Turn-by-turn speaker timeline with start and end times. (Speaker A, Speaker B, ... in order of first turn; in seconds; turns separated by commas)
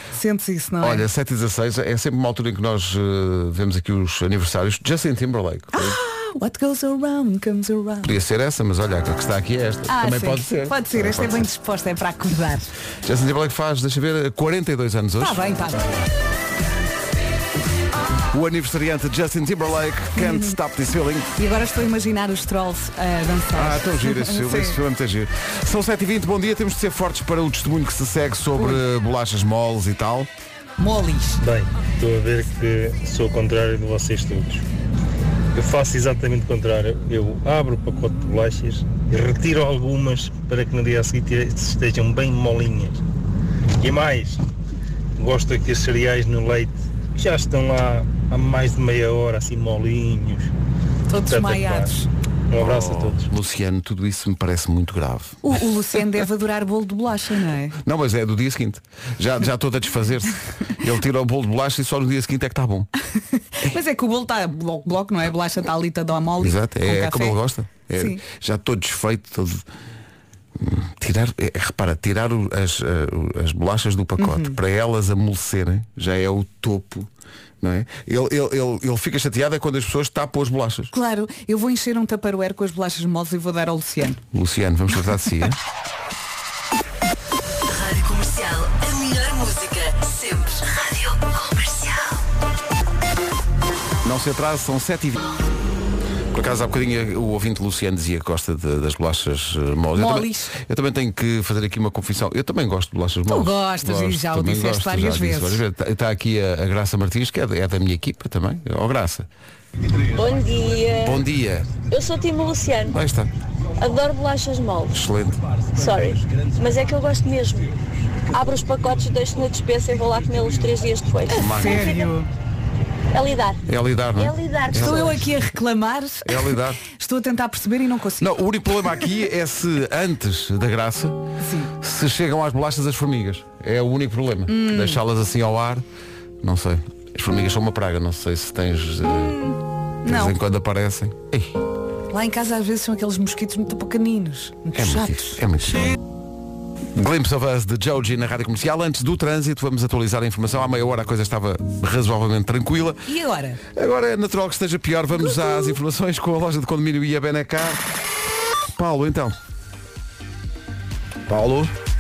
Speaker A: 0.1-1.1, Speaker B: 0.8-6.0, Speaker A: 5.7-8.1, Speaker B: 8.0-11.5, Speaker A: 9.9-12.7, Speaker B: 13.1-15.4, Speaker A: 15.2-16.0, Speaker B: 18.3-21.3, Speaker A: 20.2-20.5, Speaker A: 21.4-24.8, Speaker B: 23.6-30.3, Speaker A: 30.8-31.4, Speaker C: 31.4-34.6, Speaker C: 35.5-43.0, Speaker C: 43.8-44.4, Speaker C: 45.2-50.5, Speaker A: 51.1-52.1, Speaker C: 51.2-51.9, Speaker C: 52.5-53.2, Speaker B: 52.6-55.4, Speaker A: 55.4-57.8, Speaker B: 57.8-62.9, Speaker A: 63.5-67.4, Speaker B: 66.4-69.6, Speaker B: 70.6-77.1, Speaker A: 74.2-74.6, Speaker B: 77.6-80.9, Speaker A: 80.9-84.2, Speaker B: 84.3-85.6, Speaker D: 87.7-92.2, Speaker B: 94.0-95.2, Speaker B: 96.3-109.3, Speaker A: 100.0-100.5, Speaker A: 103.3-105.6, Speaker E: 110.1-111.2, Speaker B: 111.0-111.8, Speaker E: 111.8-113.0, Speaker B: 112.9-113.3, Speaker E: 113.8-115.0, Speaker B: 114.9-115.4, Speaker E: 115.8-117.7, Speaker E: 118.3-121.5, Speaker A: 121.3-122.3, Speaker B: 121.3-122.1, Speaker E: 123.1-123.6, Speaker B: 123.7-125.3, Speaker E: 124.2-125.0, Speaker A: 124.7-128.3, Speaker B: 126.2-126.8, Speaker B: 128.2-131.2, Speaker A: 131.4-131.7, Speaker B: 131.8-135.8, Speaker A: 134.5-135.0, Speaker B: 136.4-139.4, Speaker A: 139.1-140.4, Speaker B: 140.1-141.6, Speaker A: 142.1-145.4, Speaker B: 144.8-145.9, Speaker B: 146.9-153.0, Speaker A: 153.1-153.6, Speaker B: 153.7-157.8, Speaker B: 158.7-159.4, Speaker B: 161.3-161.7